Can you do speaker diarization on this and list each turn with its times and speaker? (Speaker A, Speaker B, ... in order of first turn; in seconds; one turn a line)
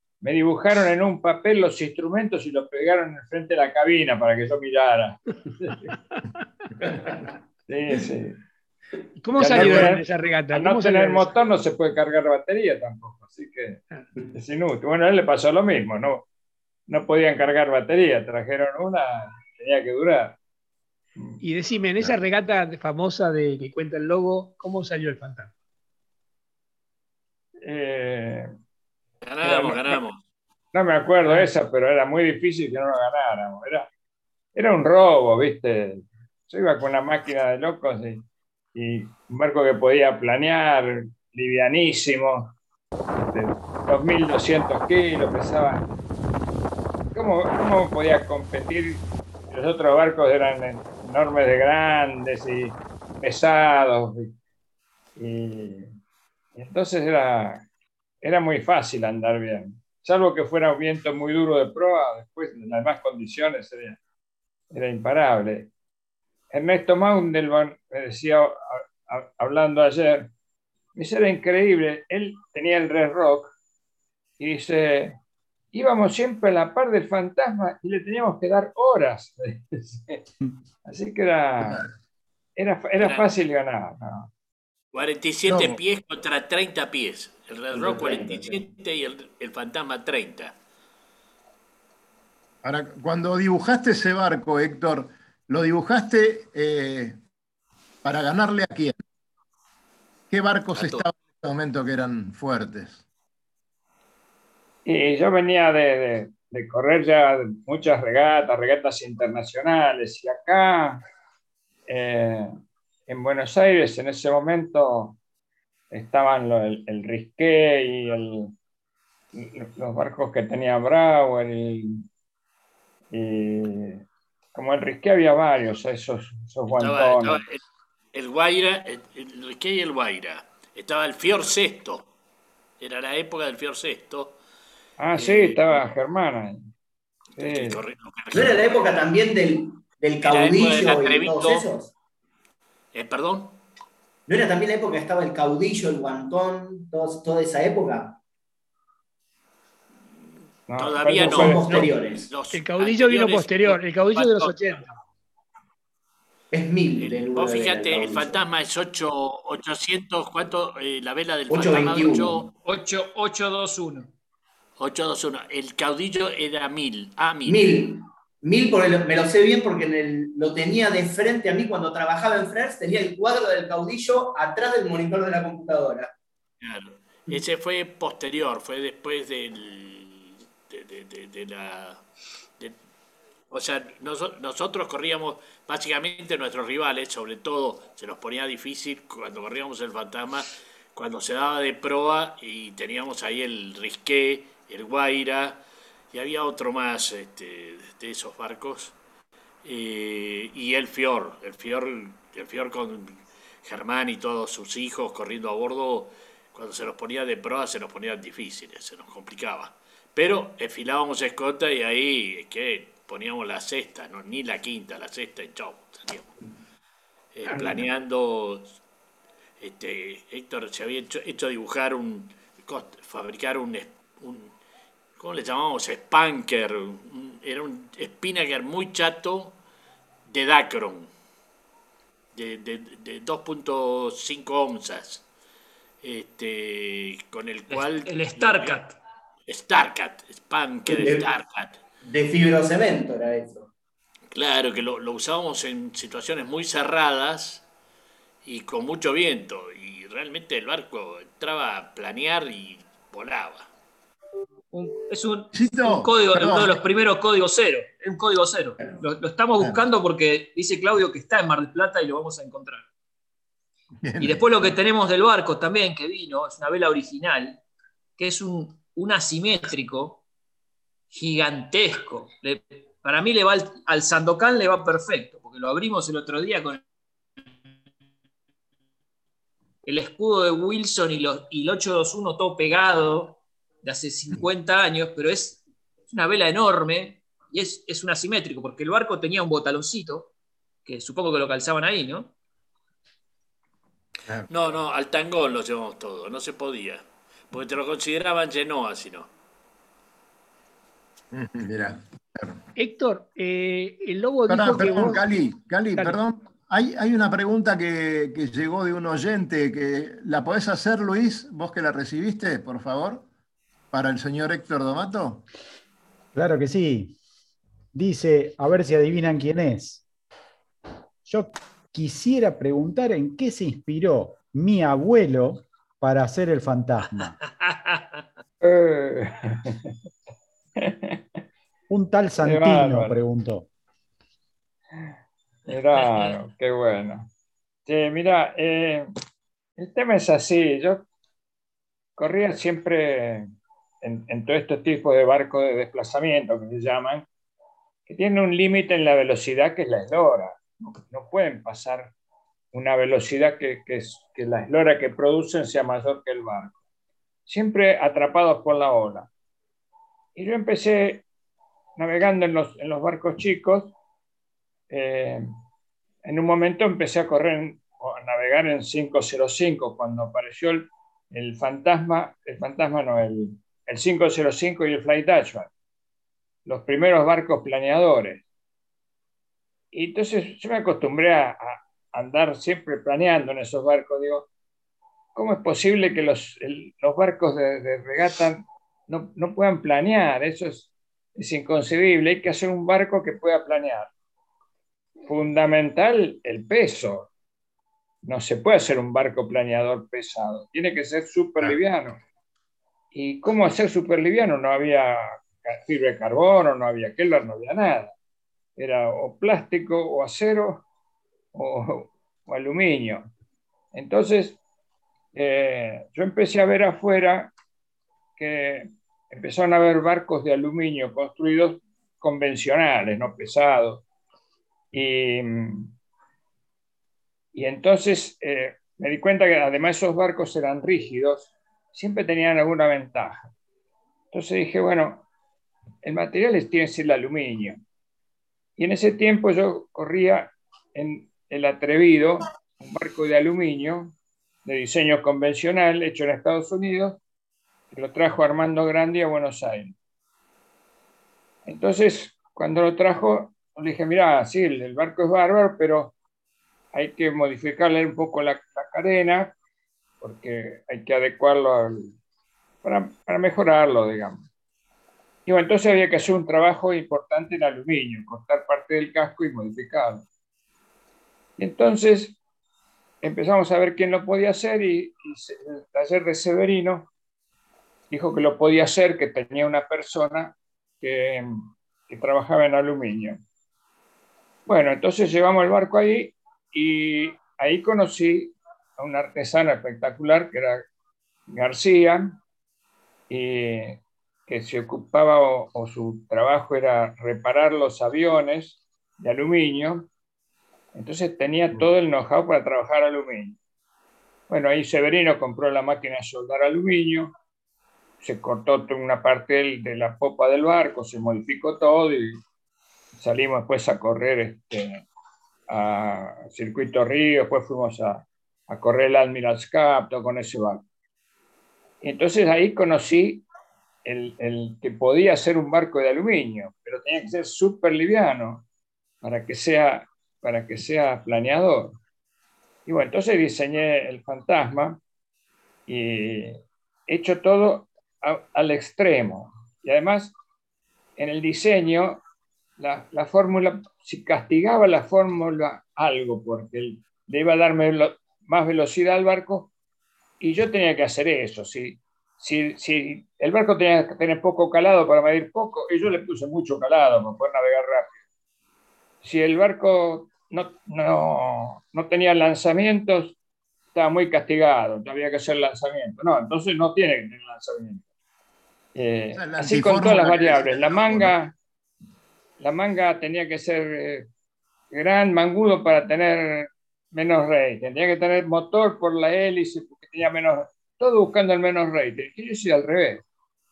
Speaker A: 0.2-5.9
Speaker B: 6.8-7.2
Speaker A: 7.7-8.4
Speaker C: 9.2-11.3
Speaker A: 9.4-13.8
Speaker A: 14.3-16.3
Speaker A: 16.9-20.4
Speaker C: 21.4-25.5
Speaker A: 27.6-28.5
Speaker D: 29.2-30.2
Speaker A: 29.4-30.0
Speaker A: 30.7-33.9
Speaker C: 31.2-31.5
Speaker A: 34.5-42.5
Speaker A: 43.2-45.8
Speaker A: 47.1-54.3
Speaker A: 55.2-55.9
Speaker A: 56.5-57.7
Speaker A: 58.2-64.0
Speaker A: 64.7-65.7
Speaker A: 66.5-70.3
Speaker A: 71.0-73.5
Speaker A: 74.4-75.2
Speaker A: 75.7-80.2
Speaker A: 80.8-81.9
Speaker A: 82.6-84.3
Speaker D: 83.0-83.3
Speaker D: 84.9-90.6
Speaker E: 85.5-85.8
Speaker B: 87.7-88.6
Speaker E: 92.6-97.2
Speaker E: 98.0-98.9
Speaker E: 100.3-103.0
Speaker D: 100.7-101.1
Speaker A: 104.8-111.0
Speaker A: 111.9-112.5
Speaker A: 113.1-115.2
Speaker A: 115.9-118.5
Speaker A: 119.3-122.0
Speaker A: 123.1-127.4
Speaker D: 126.8-127.6
Speaker D: 128.1-132.1
Speaker D: 132.8-134.4
Speaker A: 135.0-136.7
Speaker D: 135.2-135.8
Speaker A: 137.4-137.8
Speaker D: 137.4-139.0
Speaker B: 138.3-141.9
Speaker D: 140.2-141.7
Speaker D: 142.9-143.6
Speaker B: 144.3-148.2
Speaker A: 150.7-151.6
Speaker D: 150.8-153.8
Speaker B: 151.2-152.3
Speaker C: 152.5-155.0
Speaker F: 154.2-154.8
Speaker B: 156.5-158.4
Speaker D: 157.0-162.4
Speaker B: 161.5-162.5
Speaker F: 162.6-164.1
Speaker D: 164.8-167.6
Speaker B: 167.5-176.1
Speaker D: 176.6-182.0
Speaker D: 183.5-199.0
Speaker D: 199.6-216.4
Speaker D: 217.3-218.7
Speaker B: 217.5-217.8
Speaker D: 219.6-224.5
Speaker D: 225.2-229.6
Speaker D: 230.3-231.1
Speaker D: 232.3-235.3
Speaker D: 236.0-238.8
Speaker F: 237.7-239.0
Speaker D: 239.5-241.8
Speaker B: 240.9-241.3
Speaker B: 242.0-243.7
Speaker D: 244.3-247.7
Speaker D: 248.4-253.7
Speaker F: 254.7-262.9
Speaker E: 255.5-256.8
Speaker E: 259.6-259.9
Speaker E: 264.0-264.7
Speaker F: 264.2-267.6
Speaker F: 268.2-270.2
Speaker F: 271.1-276.8
Speaker F: 279.8-290.3
Speaker F: 290.9-292.3
Speaker D: 294.5-299.3
Speaker E: 301.3-302.6
Speaker C: 302.8-305.2
Speaker E: 304.5-313.3
Speaker E: 313.9-315.5
Speaker G: 316.3-317.2
Speaker G: 317.9-320.1
Speaker G: 321.3-327.4
Speaker A: 328.6-329.9
Speaker A: 330.8-331.4
Speaker G: 331.9-333.7
Speaker A: 332.4-333.2
Speaker F: 335.7-336.4
Speaker A: 335.7-337.3
Speaker A: 337.9-339.1
Speaker A: 339.8-341.1
Speaker A: 342.2-343.5
Speaker A: 344.0-347.3
Speaker A: 348.1-352.1
Speaker A: 352.7-356.8
Speaker A: 357.5-359.3
Speaker A: 360.4-361.2
Speaker A: 362.0-363.9
Speaker A: 364.9-365.5
Speaker A: 366.2-375.7
Speaker A: 376.7-378.4
Speaker A: 379.9-384.5
Speaker A: 385.4-394.1
Speaker A: 395.3-397.3
Speaker A: 398.2-402.2
Speaker A: 403.1-408.1
Speaker A: 408.8-410.9
Speaker A: 411.5-413.3
Speaker A: 413.9-414.6
Speaker A: 415.3-417.5
Speaker A: 418.4-424.1
Speaker A: 424.9-425.9
Speaker A: 427.5-433.5
Speaker A: 434.3-435.3
Speaker A: 436.0-437.8
Speaker A: 438.8-444.1
Speaker A: 444.6-447.2
Speaker A: 447.9-449.9
Speaker A: 451.7-456.1
Speaker A: 456.9-459.6
Speaker A: 460.2-462.1
Speaker A: 462.8-464.5
Speaker A: 465.5-470.2
Speaker A: 471.6-472.4
Speaker A: 473.2-477.1
Speaker A: 478.1-481.5
Speaker A: 482.1-483.4
Speaker A: 484.7-490.8
Speaker A: 491.5-492.4
Speaker A: 493.3-500.1
Speaker A: 500.9-503.6
Speaker A: 504.5-507.3
Speaker A: 508.2-512.4
Speaker A: 513.2-515.1
Speaker A: 515.7-520.8
Speaker A: 522.0-523.5
Speaker A: 524.0-528.6
Speaker A: 529.2-532.0
Speaker A: 532.9-535.0
Speaker A: 535.9-540.4
Speaker A: 541.2-542.2
Speaker A: 542.8-549.7
Speaker A: 550.4-558.2
Speaker A: 559.2-563.4
Speaker A: 563.9-568.0
Speaker A: 569.0-571.5
Speaker E: 569.3-571.4
Speaker A: 572.6-574.3
Speaker A: 574.9-583.2